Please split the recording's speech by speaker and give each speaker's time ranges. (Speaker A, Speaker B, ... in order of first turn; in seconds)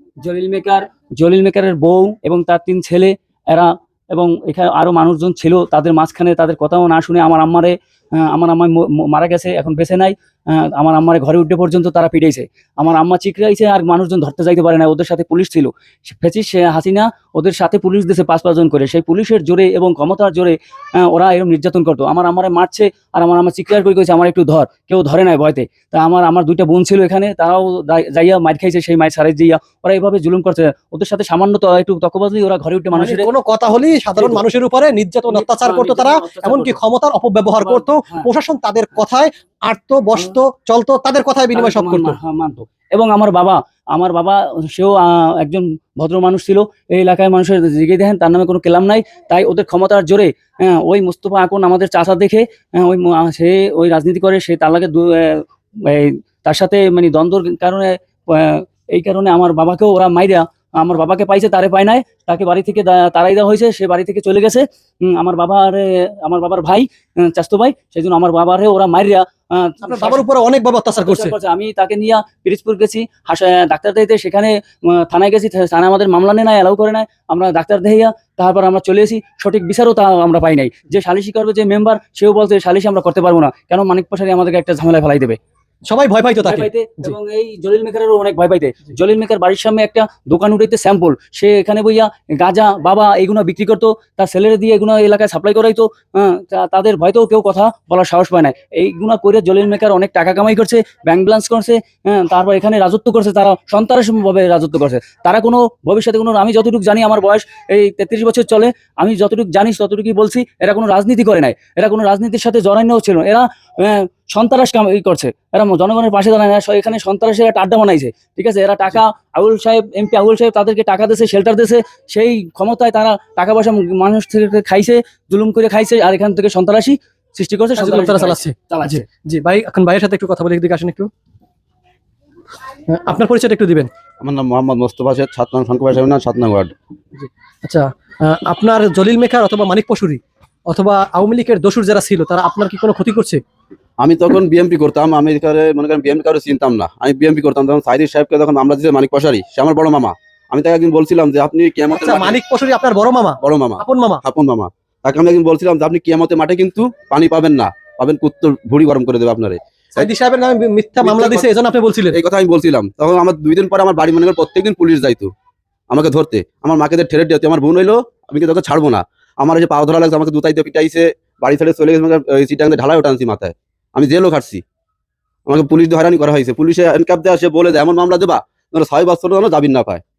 Speaker A: 0.2-33.3, 34.2-34.4, 35.3-36.8, 37.5-38.3, 41.5-70.2, 71.0-85.4, 86.4-129.0
Speaker B: 32.9-42.2, 69.8-71.3, 85.9-87.1, 127.8-131.1, 132.9-133.9, 137.2-143.4, 151.9-154.2, 159.9-162.2
Speaker C: 134.2-136.7, 144.0-152.4, 153.4-160.1, 161.0-161.5, 162.1-165.3, 165.9-174.6, 175.5-180.0